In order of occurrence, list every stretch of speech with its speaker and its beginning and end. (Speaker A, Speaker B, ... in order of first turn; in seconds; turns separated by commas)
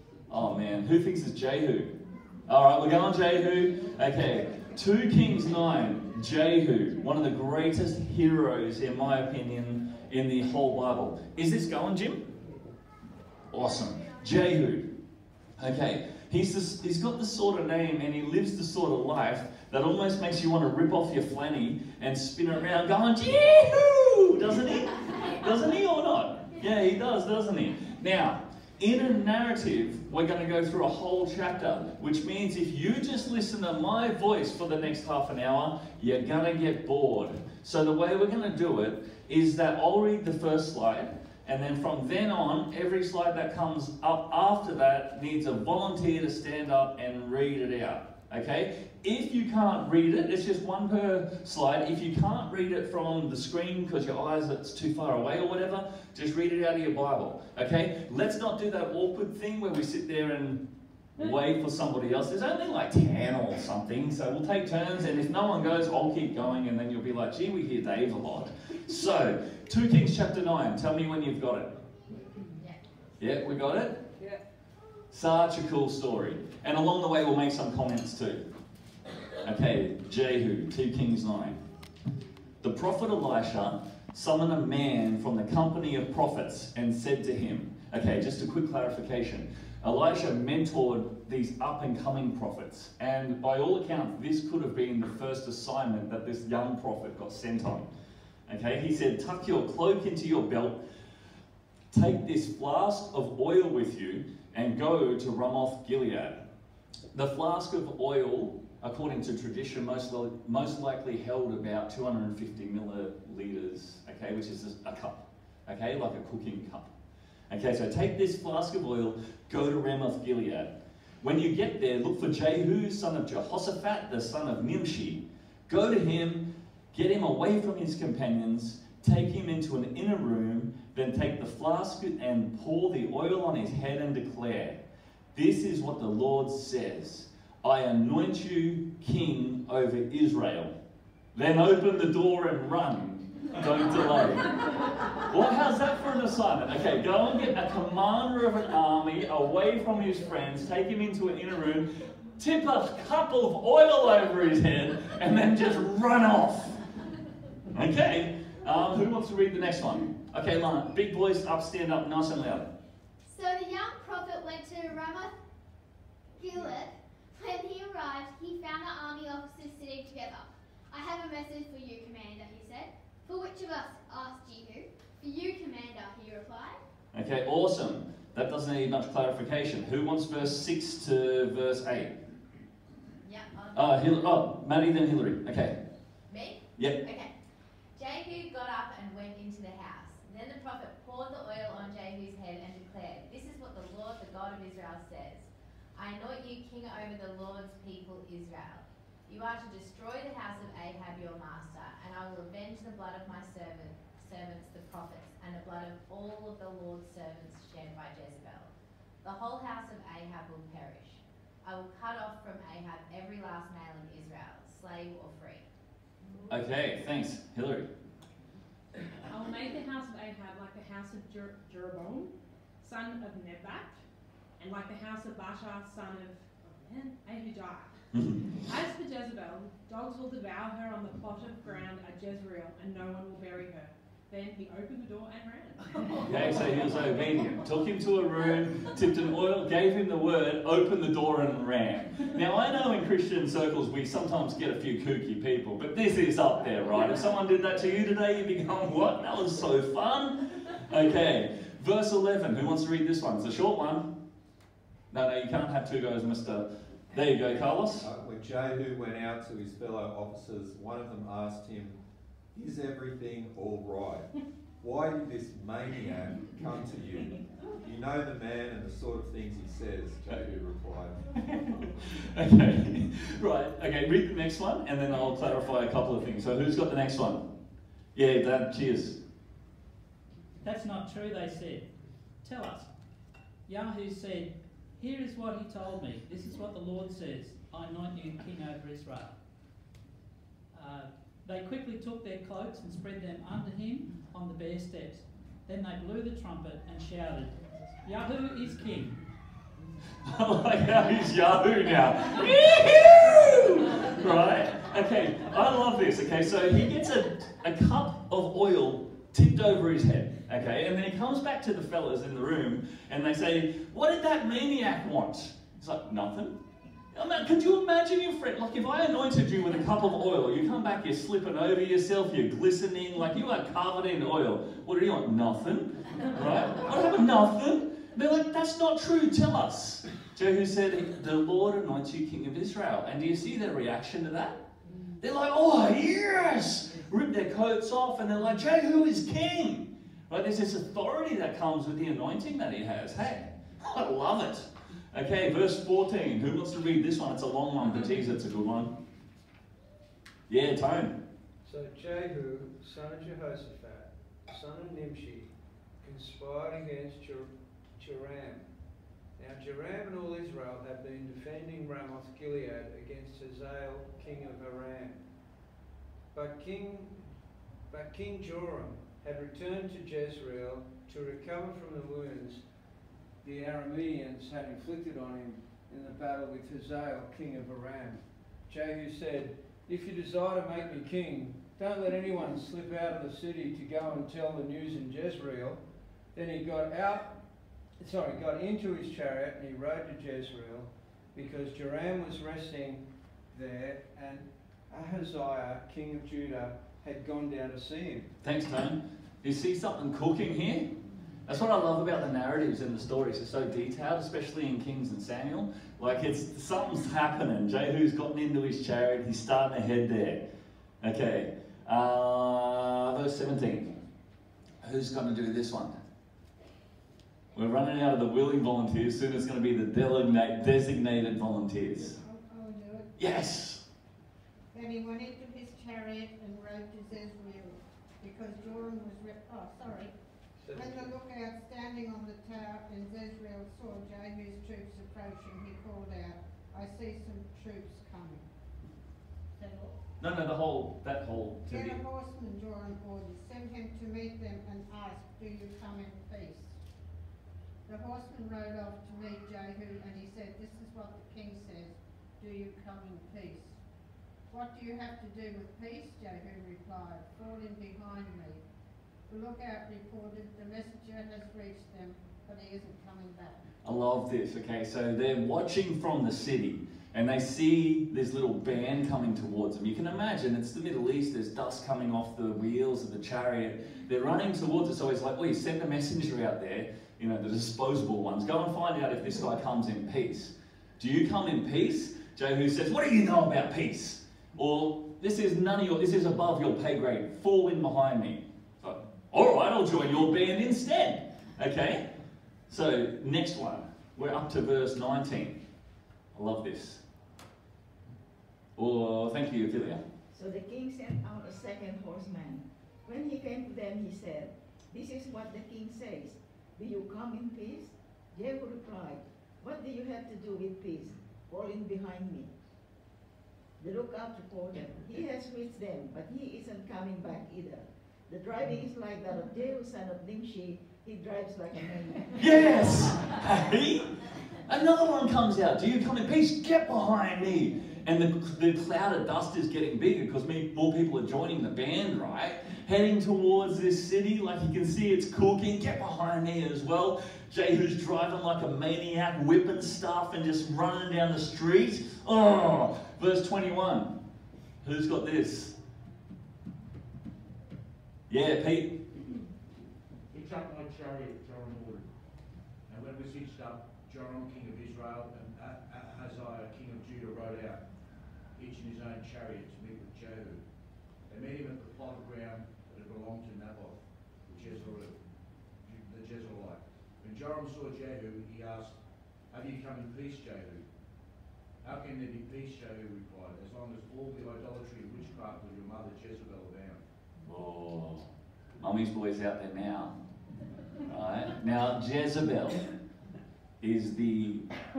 Speaker A: 0.3-1.9, Speaker A: 2.5-12.3, Speaker A: 13.5-14.9, Speaker A: 15.6-60.6, Speaker A: 61.1-71.8, Speaker A: 73.2-74.0, Speaker A: 75.1-78.4, Speaker A: 79.4-81.6, Speaker A: 82.6-97.9, Speaker A: 98.5-100.8, Speaker A: 101.9-106.4, Speaker A: 107.1-116.9, Speaker A: 117.5-134.8, Speaker A: 135.3-140.7, Speaker A: 141.3-156.8, Speaker A: 157.7-162.7, Speaker B: 163.2-165.3, Speaker B: 166.3-176.8, Speaker A: 177.1-182.1, Speaker C: 183.2-184.2, Speaker A: 183.7-185.8, Speaker C: 186.3-187.3, Speaker C: 187.9-208.7, Speaker C: 209.2-215.7, Speaker A: 216.5-217.9, Speaker D: 219.2-224.0, Speaker D: 224.6-227.9, Speaker A: 228.1-228.4, Speaker D: 228.6-237.3, Speaker A: 236.2-254.1, Speaker A: 255.1-258.1, Speaker E: 258.0-262.0, Speaker E: 262.5-271.4, Speaker A: 271.5-277.4, Speaker A: 278.1-279.2, Speaker F: 280.6-281.9, Speaker F: 282.4-282.9, Speaker F: 283.7-289.3, Speaker F: 290.7-299.2, Speaker A: 300.2-316.6, Speaker A: 317.1-334.6, Speaker A: 335.2-348.9, Speaker A: 350.5-351.1, Speaker G: 351.6-358.6, Speaker G: 359.4-365.2, Speaker G: 366.3-367.3, Speaker G: 367.9-372.6, Speaker G: 373.4-385.8, Speaker G: 386.3-387.3, Speaker G: 388.0-398.3, Speaker A: 398.4-400.9, Speaker A: 401.4-410.4, Speaker A: 411.0-413.9, Speaker A: 414.8-416.0, Speaker A: 417.5-422.2, Speaker H: 422.1-423.1, Speaker A: 423.2-423.8, Speaker H: 424.7-430.1, Speaker G: 430.6-431.1, Speaker H: 430.7-438.4, Speaker H: 439.6-439.9, Speaker A: 440.2-442.0, Speaker H: 441.7-446.7, Speaker H: 447.9-453.8, Speaker H: 454.5-458.6, Speaker H: 459.3-463.6, Speaker A: 463.8-492.0, Speaker A: 492.7-495.6, Speaker A: 496.3-497.0, Speaker A: 498.8-500.0, Speaker I: 500.3-512.5, Speaker I: 513.8-523.0, Speaker A: 522.4-524.1, Speaker A: 524.6-544.1, Speaker A: 544.8-545.8, Speaker A: 548.3-549.0, Speaker J: 550.3-552.1, Speaker J: 552.9-557.8, Speaker J: 558.5-560.6, Speaker J: 561.3-565.2, Speaker J: 565.8-568.9, Speaker J: 569.5-570.9, Speaker J: 571.8-577.0, Speaker A: 577.4-578.3, Speaker A: 578.8-580.1, Speaker A: 581.0-582.8, Speaker A: 583.8-584.6